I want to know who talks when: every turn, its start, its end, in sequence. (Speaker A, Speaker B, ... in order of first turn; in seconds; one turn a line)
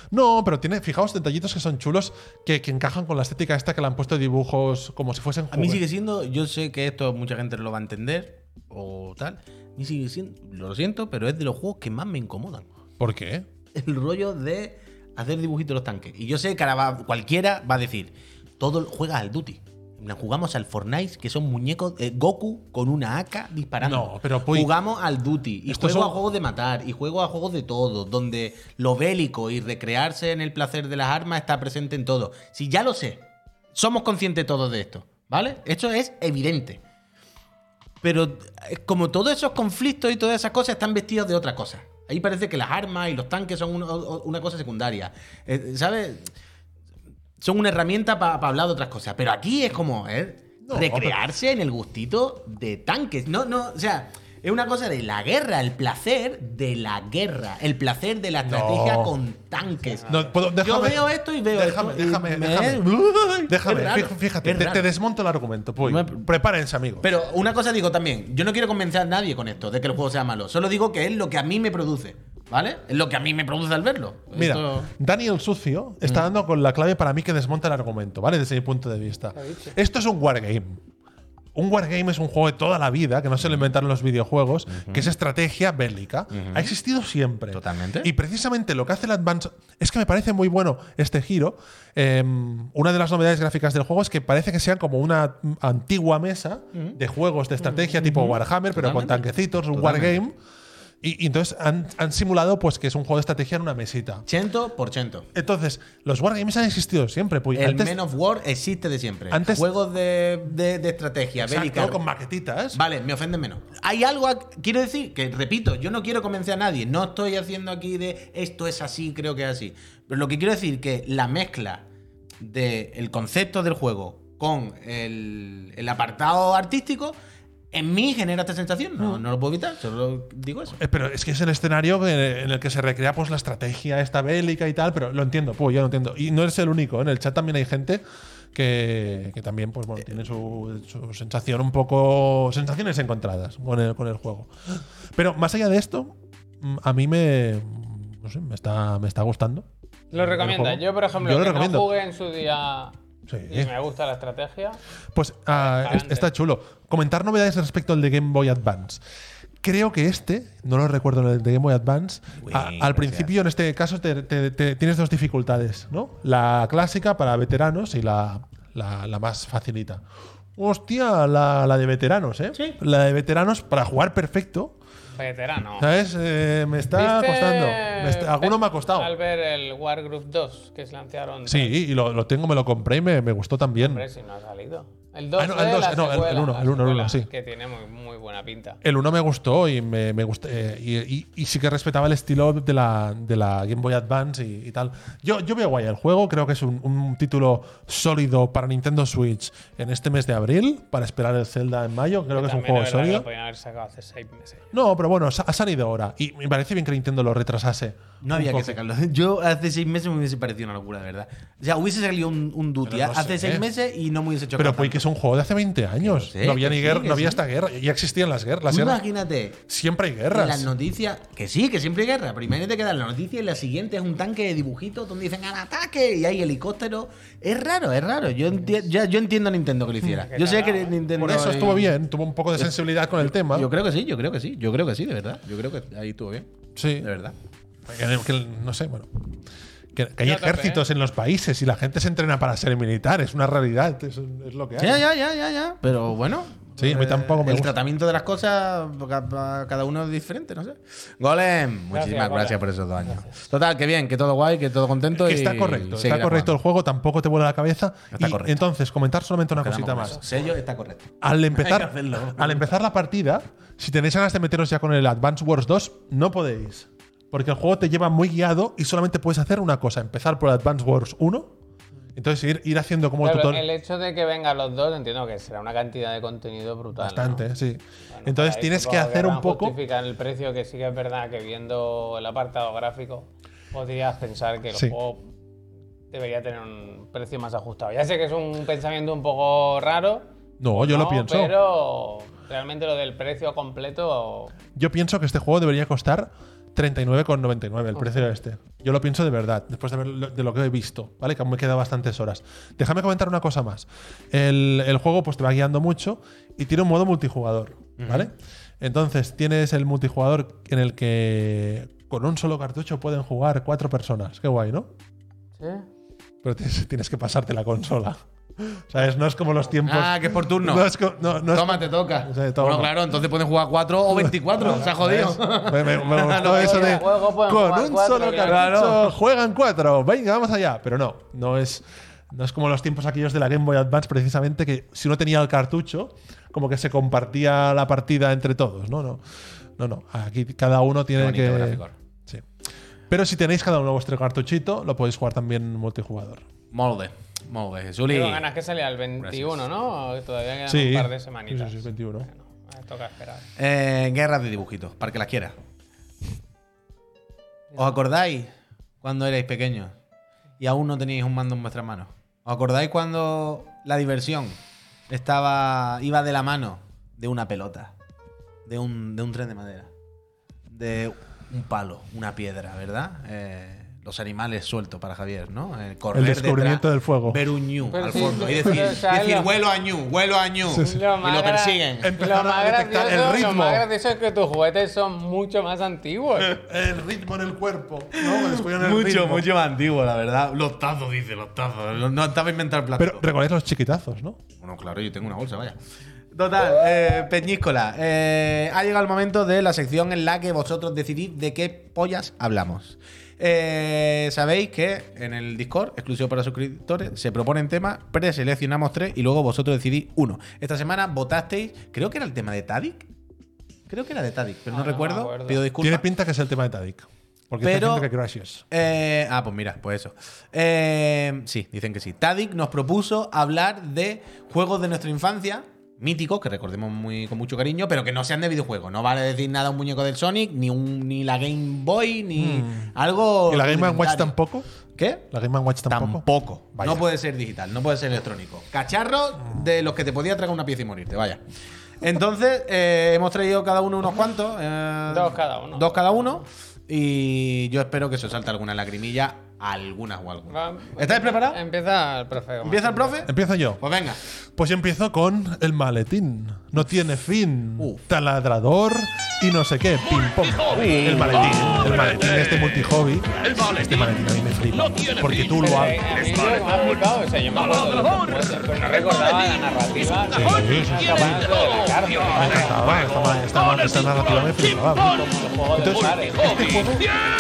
Speaker A: 0.1-5.8
Speaker B: 5.5-12.7
Speaker A: 13.0-13.5
Speaker B: 13.7-33.2
Speaker A: 23.8-24.7
Speaker A: 25.7-26.2
Speaker B: 33.7-36.8
Speaker B: 38.0-46.3
Speaker B: 47.4-64.9
Speaker A: 50.6-51.2
Speaker A: 58.4-59.1
Speaker C: 59.9-60.3
Speaker A: 60.1-62.9
Speaker A: 63.5-67.1
Speaker B: 65.8-66.2
Speaker B: 67.0-74.9
Speaker A: 74.3-80.8
Speaker C: 79.3-79.8
Speaker A: 81.5-100.3
Speaker B: 84.7-85.1
Speaker B: 86.3-86.7
Speaker B: 87.5-88.1
Speaker B: 96.7-97.0
Speaker B: 97.9-100.2
Speaker A: 101.0-104.2
Speaker B: 104.2-105.3
Speaker A: 105.3-108.0
Speaker B: 107.5-112.0
Speaker A: 109.3-109.7
Speaker A: 111.4-112.8
Speaker B: 112.7-121.8
Speaker B: 122.4-127.2
Speaker B: 127.7-130.8
Speaker A: 130.8-138.0
Speaker A: 138.5-151.9
Speaker C: 150.1-152.9
Speaker A: 153.3-153.7
Speaker C: 153.5-154.8
Speaker A: 155.1-159.0
Speaker C: 155.5-156.3
Speaker A: 159.6-170.0
Speaker B: 162.4-163.3
Speaker A: 170.6-174.8
Speaker C: 175.2-175.9
Speaker A: 175.8-179.1
Speaker C: 176.9-181.7
Speaker A: 181.4-184.0
Speaker C: 183.8-188.8
Speaker A: 185.4-187.3
Speaker A: 188.8-203.2
Speaker C: 202.3-204.6
Speaker A: 204.7-208.8
Speaker B: 208.2-215.0
Speaker A: 212.8-213.7
Speaker A: 214.6-219.0
Speaker B: 216.0-217.4
Speaker B: 218.7-219.6
Speaker A: 219.7-220.7
Speaker B: 220.3-231.9
Speaker C: 230.2-231.0
Speaker A: 231.2-233.7
Speaker B: 232.6-237.3
Speaker A: 236.8-237.1
Speaker A: 237.8-239.3
Speaker A: 239.9-245.1
Speaker C: 240.2-240.8
Speaker B: 244.8-256.5
Speaker A: 246.8-247.7
Speaker C: 251.9-253.3
Speaker A: 255.1-260.2
Speaker B: 258.1-258.6
Speaker B: 259.5-262.6
Speaker A: 261.2-271.5
Speaker A: 272.1-273.6
Speaker C: 273.2-277.4
Speaker A: 277.0-279.8
Speaker C: 278.1-285.3
Speaker C: 286.1-294.5
Speaker A: 290.6-291.5
Speaker A: 294.7-314.9
Speaker B: 308.0-308.3
Speaker C: 315.6-315.9
Speaker A: 316.4-322.9
Speaker B: 319.8-320.9
Speaker B: 321.5-327.0
Speaker A: 324.1-339.2
Speaker C: 326.2-328.7
Speaker B: 328.4-329.1
Speaker A: 339.8-342.5
Speaker B: 341.1-341.9
Speaker A: 343.1-346.4
Speaker B: 346.7-348.4
Speaker C: 348.1-353.5
Speaker B: 349.2-349.6
Speaker A: 350.7-352.3
Speaker B: 353.6-355.5
Speaker B: 357.8-358.5
Speaker B: 359.0-359.9
Speaker B: 360.6-364.6
Speaker B: 365.1-367.9
Speaker B: 368.6-369.9
Speaker B: 370.7-382.1
Speaker A: 376.1-377.4
Speaker C: 377.9-379.5
Speaker A: 378.2-378.8
Speaker A: 380.7-381.0
Speaker C: 380.8-386.6
Speaker A: 382.0-383.8
Speaker A: 386.6-389.4
Speaker B: 388.1-393.2
Speaker A: 393.0-394.4
Speaker B: 394.6-395.8
Speaker B: 396.3-413.1
Speaker B: 413.9-416.0
Speaker C: 414.7-415.6
Speaker A: 415.8-418.6
Speaker B: 417.6-418.1
Speaker B: 418.7-434.3
Speaker A: 432.4-432.9
Speaker A: 433.5-434.6
Speaker B: 434.9-435.3
Speaker A: 435.3-437.0
Speaker B: 435.9-441.4
Speaker B: 442.0-451.6
Speaker C: 445.1-446.4
Speaker C: 450.5-453.2
Speaker B: 452.6-454.2
Speaker A: 453.2-453.8
Speaker A: 454.6-466.1
Speaker B: 460.9-461.9
Speaker C: 465.5-473.1
Speaker A: 470.3-471.5
Speaker A: 472.3-477.1
Speaker C: 474.9-476.8